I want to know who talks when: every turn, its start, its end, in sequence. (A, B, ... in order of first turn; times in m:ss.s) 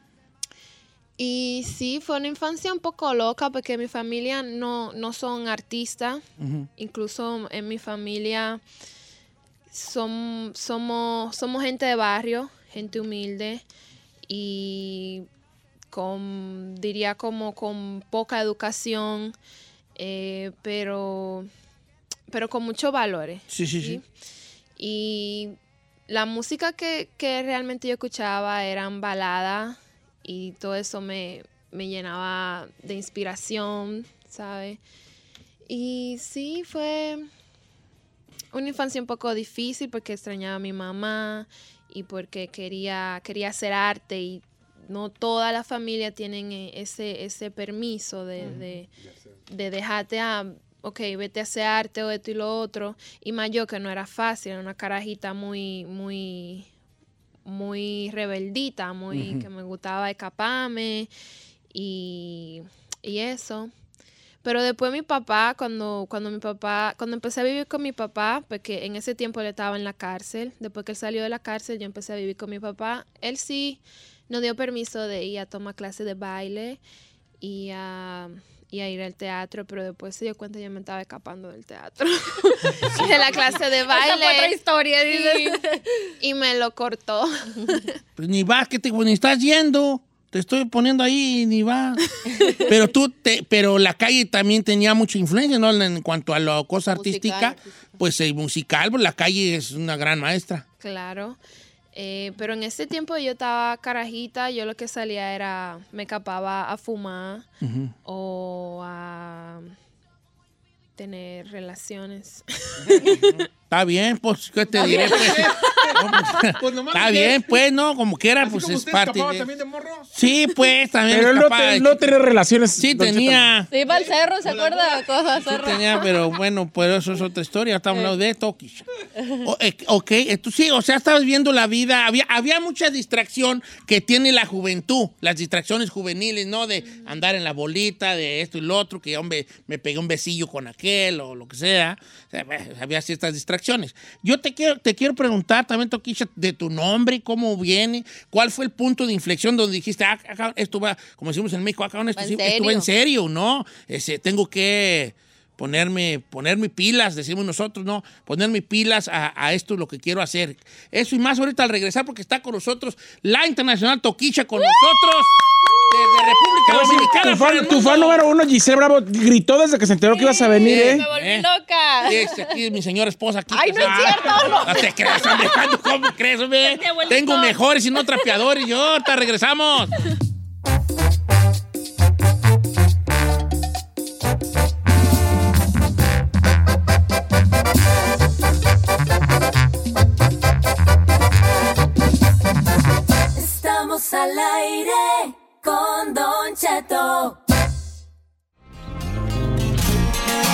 0:01.2-0:06.2 A
0:06.4-0:06.7 B
0:06.8-0:08.6 A
0:09.7-0:13.6 A
0:14.3-0:15.3 A
0:15.9-0:19.4 A
0:20.0-0:21.5 A
0:22.3-0:24.0 A
0:23.5-0:24.0 B
0:24.8-0:25.6 A
0:26.1-0:34.8 A
0:35.7-0:37.3 A
0:38.5-0:48.9 A
0:48.4-0:49.4 C
0:49.5-0:56.7 A
0:57.4-1:01.1 A
0:59.1-0:59.5 B
1:01.7-1:03.7 A
1:04.4-1:16.8 A
1:17.4-1:25.6 A
1:23.8-1:25.8 D
1:26.2-1:27.8 A
1:28.2-1:32.0 B
1:32.4-1:32.6 D
1:32.7-1:40.6 B
1:36.9-1:37.6 D
1:40.8-1:41.4 A
1:41.9-1:47.5 A
1:47.6-1:47.9 B
1:48.0-1:49.7 A
1:51.0-1:53.5 A
1:52.8-1:53.1 C
1:53.1-1:59.5 B
1:54.7-1:57.6 C
1:54.9-1:56.0 A
1:58.4-2:00.1 C
2:00.1-2:02.1 B
2:01.1-2:03.5 E
2:02.8-2:03.7 B
2:03.7-2:06.0 D
2:03.8-2:05.1 C
2:05.4-2:08.8 B
2:09.2-2:09.4 D
2:09.4-2:45.4 B
2:16.8-2:17.2 A
2:32.2-2:32.9 D
2:45.9-2:48.2 B
2:46.7-2:51.0 E
2:50.1-2:52.4 D
2:50.6-2:51.5 B
2:52.0-3:00.0 B
2:53.5-2:55.5 D
2:56.6-2:58.3 D
3:13.3-3:17.4 F